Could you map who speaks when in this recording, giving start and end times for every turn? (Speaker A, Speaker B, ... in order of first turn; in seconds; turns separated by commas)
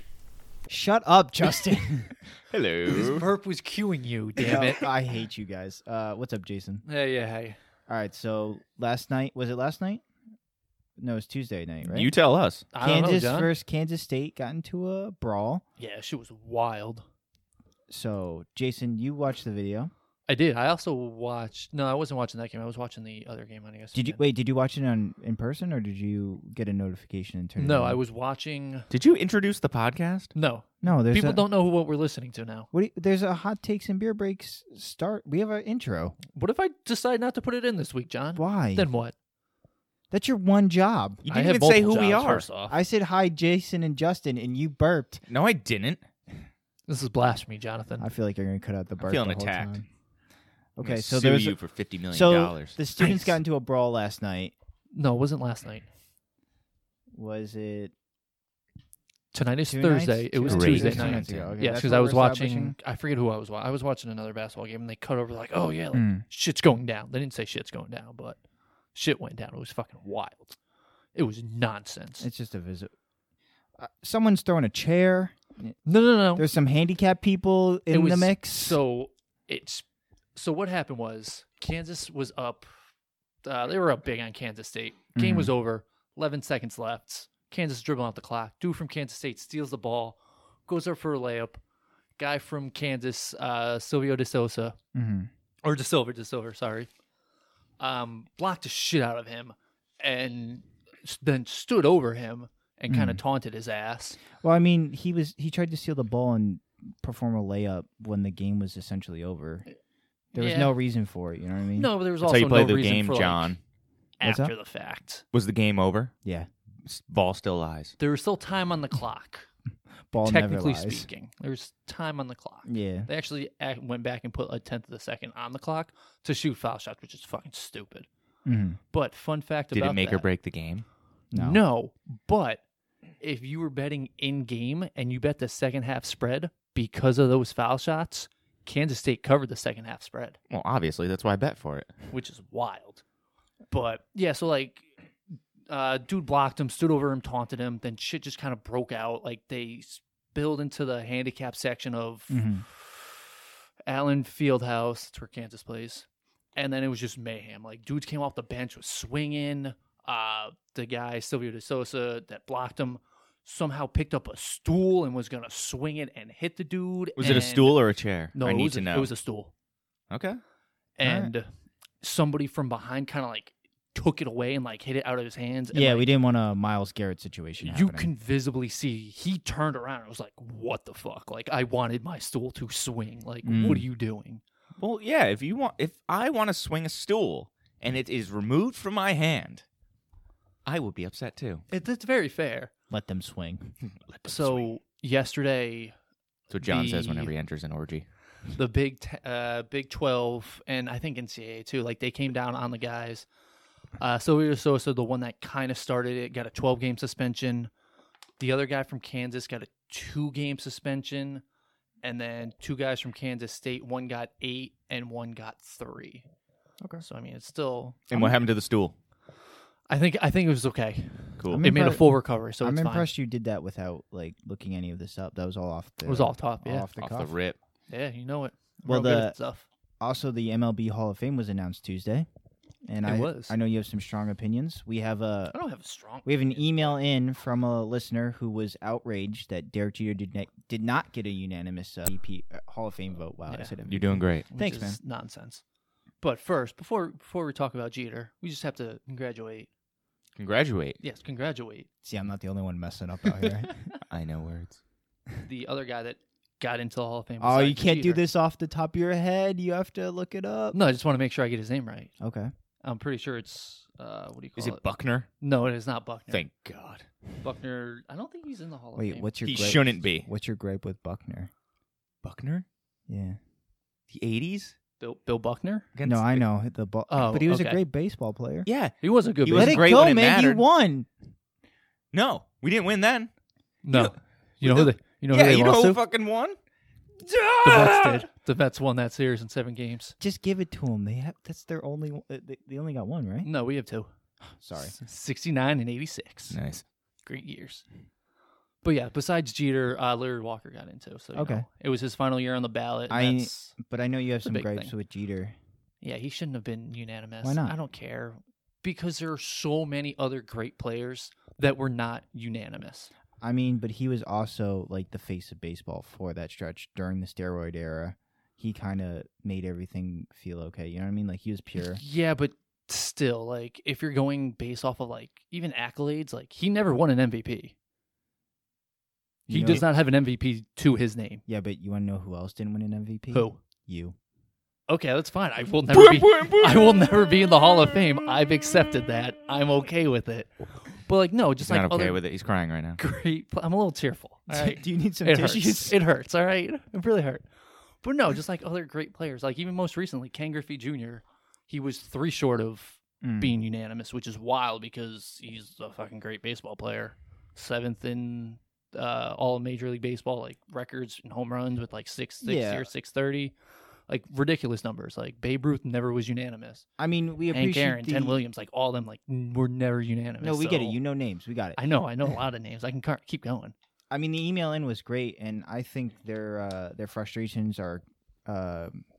Speaker A: 0.7-2.2, Speaker B: 2.5-3.3, Speaker C: 2.9-4.9, Speaker A: 4.4-6.8, Speaker C: 6.8-7.6, Speaker A: 7.9-10.0, Speaker A: 11.0-12.1, Speaker B: 11.8-12.7, Speaker C: 12.7-13.5, Speaker A: 12.8-15.6, Speaker C: 15.8-17.0, Speaker A: 17.9-19.9, Speaker C: 20.3-24.2, Speaker A: 23.9-28.0, Speaker C: 27.6-28.9, Speaker B: 28.9-30.3, Speaker C: 30.3-32.7, Speaker A: 30.8-31.4, Speaker A: 32.7-36.2, Speaker C: 36.3-39.1, Speaker A: 38.3-38.9, Speaker A: 40.1-41.2, Speaker B: 41.2-42.5, Speaker C: 41.3-42.8, Speaker A: 42.7-45.2, Speaker B: 45.3-46.0, Speaker C: 46.9-48.1, Speaker A: 48.0-49.9, Speaker B: 49.0-49.8, Speaker A: 50.8-51.6, Speaker B: 50.8-52.8, Speaker A: 52.1-54.5, Speaker C: 53.0-53.3, Speaker C: 54.9-55.9, Speaker A: 57.1-57.9, Speaker C: 59.3-68.4, Speaker A: 59.7-62.8, Speaker B: 60.5-61.5, Speaker A: 65.9-66.2, Speaker C: 68.9-70.6, Speaker C: 71.1-72.3, Speaker A: 72.2-72.9, Speaker A: 73.8-75.8, Speaker C: 75.9-76.5, Speaker A: 76.3-78.8, Speaker C: 77.9-79.8, Speaker C: 80.3-82.7, Speaker C: 83.4-91.6, Speaker A: 85.1-85.5, Speaker C: 92.2-94.8, Speaker A: 94.9-95.3, Speaker C: 95.6-96.9, Speaker C: 97.8-104.2, Speaker A: 102.9-103.2, Speaker A: 104.3-109.7, Speaker A: 110.3-111.9, Speaker C: 110.3-110.7, Speaker C: 111.8-113.5, Speaker B: 112.2-113.6, Speaker C: 114.2-115.2, Speaker A: 114.2-114.5, Speaker B: 115.3-116.1, Speaker A: 116.2-116.5, Speaker B: 116.8-117.9, Speaker C: 118.0-119.5, Speaker A: 120.1-121.1, Speaker C: 120.2-128.1, Speaker A: 122.7-123.1, Speaker A: 128.4-128.8, Speaker C: 128.9-130.3, Speaker B: 129.7-130.8, Speaker A: 131.3-131.6, Speaker C: 131.3-132.6, Speaker C: 133.2-140.4, Speaker B: 140.5-141.9, Speaker C: 142.1-143.0, Speaker C: 143.7-144.9, Speaker C: 145.7-153.3, Speaker A: 152.3-152.6, Speaker C: 153.9-169.5, Speaker B: 167.2-169.1, Speaker B: 170.1-170.4, Speaker C: 171.0-171.4, Speaker A: 171.0-171.3, Speaker C: 172.0-176.1, Speaker A: 175.7-178.1, Speaker C: 177.6-184.4, Speaker A: 183.4-183.8, Speaker B: 184.8-189.6, Speaker B: 190.6-191.6, Speaker C: 191.7-192.7, Speaker A: 192.9-193.8, Speaker B: 193.9-194.7, Speaker C: 194.2-195.9, Speaker B: 196.5-198.0, Speaker C: 196.6-197.3, Speaker C: 198.5-203.3, Speaker C: 204.0-207.7, Speaker C: 208.4-211.4, Speaker C: 212.0-216.3, Speaker C: 217.0-218.3, Speaker B: 218.1-218.9, Speaker C: 219.9-223.1, Speaker B: 221.4-221.6, Speaker A: 221.5-227.3, Speaker C: 226.1-226.9, Speaker B: 227.0-227.6, Speaker C: 227.9-229.6, Speaker A: 228.9-229.3, Speaker A: 230.0-232.3, Speaker A: 232.9-235.6, Speaker C: 233.0-233.6, Speaker C: 235.5-237.0, Speaker A: 236.2-245.0, Speaker C: 243.5-243.7, Speaker B: 243.9-244.5, Speaker C: 244.5-245.6, Speaker C: 246.2-249.7, Speaker B: 250.3-251.0, Speaker C: 251.0-251.9, Speaker A: 252.0-253.7, Speaker C: 253.4-253.7, Speaker B: 254.1-254.8, Speaker C: 255.4-258.2, Speaker A: 257.4-260.8, Speaker C: 260.7-262.1, Speaker A: 262.2-262.5, Speaker C: 262.8-264.9, Speaker B: 264.6-265.3, Speaker C: 265.4-266.5, Speaker B: 266.3-267.1, Speaker C: 267.4-269.3, Speaker A: 268.9-271.5, Speaker B: 269.4-270.3, Speaker B: 272.2-272.6, Speaker A: 273.1-273.4, Speaker B: 274.1-274.8, Speaker C: 275.0-275.9, Speaker B: 275.9-276.4, Speaker A: 276.0-278.7, Speaker C: 277.1-277.8, Speaker B: 278.6-280.6, Speaker C: 279.0-279.8, Speaker A: 279.5-281.1, Speaker B: 282.1-283.3, Speaker C: 283.8-286.0, Speaker B: 283.9-286.6, Speaker B: 287.2-288.3, Speaker C: 287.6-290.1, Speaker A: 290.2-293.5, Speaker C: 293.4-294.1, Speaker A: 294.6-294.9, Speaker C: 294.8-296.6, Speaker B: 296.5-296.8, Speaker C: 297.2-297.8, Speaker C: 298.8-303.8, Speaker A: 301.3-301.6, Speaker A: 303.1-305.6, Speaker C: 304.4-304.9, Speaker C: 306.0-313.1, Speaker A: 307.4-307.8, Speaker A: 313.4-322.0, Speaker C: 321.8-327.7, Speaker A: 329.5-329.9, Speaker C: 329.5-331.4, Speaker A: 331.5-334.1, Speaker C: 333.3-333.6, Speaker C: 334.9-342.2, Speaker B: 335.9-337.1, Speaker B: 341.6-343.0, Speaker C: 343.0-347.4, Speaker A: 344.5-345.9, Speaker C: 348.0-363.5, Speaker A: 353.2-353.6, Speaker A: 362.4-362.9, Speaker C: 364.1-366.9, Speaker A: 367.0-368.4, Speaker C: 367.5-371.0, Speaker A: 370.4-371.8, Speaker C: 371.8-373.7, Speaker A: 374.1-379.0